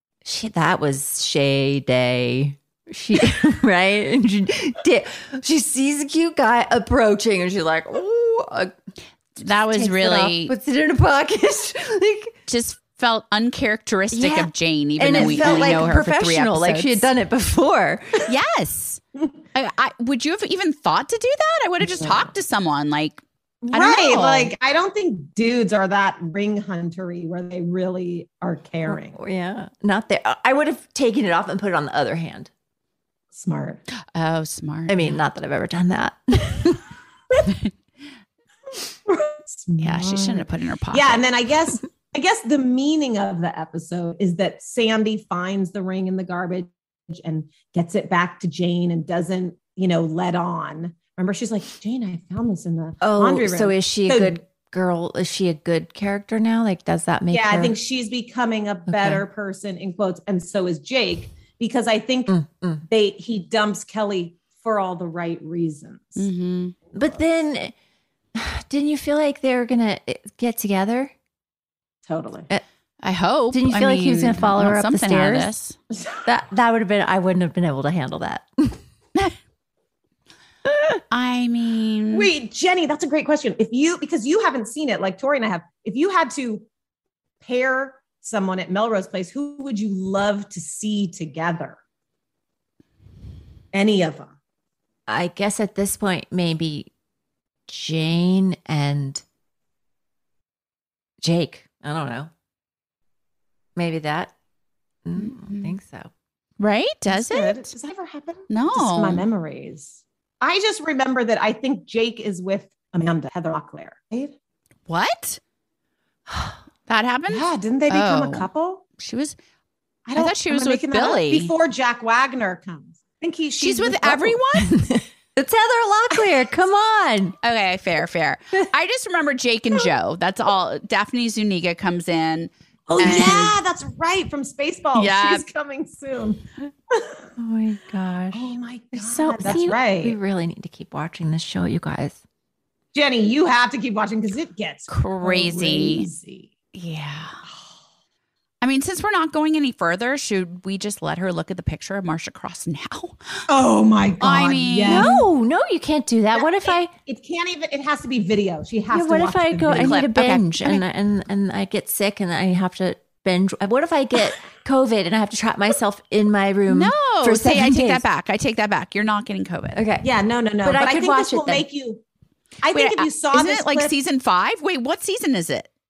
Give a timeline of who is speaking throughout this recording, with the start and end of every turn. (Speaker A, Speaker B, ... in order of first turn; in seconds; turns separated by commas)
Speaker A: 0.2-8.8, Speaker B: 9.4-10.5, Speaker A: 9.7-12.3, Speaker B: 12.5-17.1, Speaker A: 14.1-18.2, Speaker C: 15.1-15.9, Speaker B: 18.3-19.0, Speaker B: 19.6-23.2, Speaker C: 21.9-22.2, Speaker C: 23.6-29.2, Speaker B: 23.7-24.5, Speaker A: 28.9-32.5, Speaker C: 33.3-33.8, Speaker B: 34.1-35.1, Speaker A: 34.9-36.8, Speaker C: 39.1-54.4, Speaker B: 39.8-41.2, Speaker A: 53.0-57.8, Speaker C: 57.3-62.4, Speaker A: 58.9-59.2, Speaker A: 62.3-62.9, Speaker C: 62.9-66.3, Speaker B: 66.2-66.8, Speaker A: 66.9-67.7, Speaker A: 68.3-71.1, Speaker C: 72.1-72.5, Speaker B: 73.0-75.8, Speaker A: 73.5-75.5, Speaker A: 76.2-78.8, Speaker B: 81.1-82.3, Speaker C: 82.1-86.7, Speaker C: 87.4-91.8, Speaker C: 93.7-94.3, Speaker A: 95.1-96.9, Speaker A: 97.7-99.2, Speaker A: 101.2-102.3, Speaker A: 103.8-104.3, Speaker A: 105.0-106.1, Speaker B: 105.2-105.7, Speaker B: 106.6-107.7, Speaker C: 107.1-114.3, Speaker B: 108.5-109.3, Speaker B: 114.9-115.4, Speaker A: 116.3-116.6, Speaker B: 116.9-118.5, Speaker C: 117.3-118.8, Speaker B: 119.0-119.4, Speaker C: 120.1-124.4, Speaker B: 120.2-121.5, Speaker B: 123.6-124.8, Speaker A: 124.6-127.3, Speaker B: 127.4-133.6, Speaker C: 132.9-137.3, Speaker B: 134.9-135.4, Speaker A: 137.4-142.2, Speaker C: 138.3-140.2, Speaker C: 142.9-146.5, Speaker B: 144.9-146.1, Speaker B: 146.7-147.4, Speaker C: 147.5-147.7, Speaker B: 148.6-153.4, Speaker C: 153.5-155.2, Speaker B: 154.2-155.1, Speaker A: 154.9-156.9, Speaker C: 156.4-160.0, Speaker A: 158.9-168.1, Speaker B: 159.7-160.8, Speaker B: 166.7-169.8, Speaker A: 169.7-170.1, Speaker C: 170.0-172.0, Speaker A: 170.6-171.7, Speaker C: 172.6-173.9, Speaker B: 172.7-175.7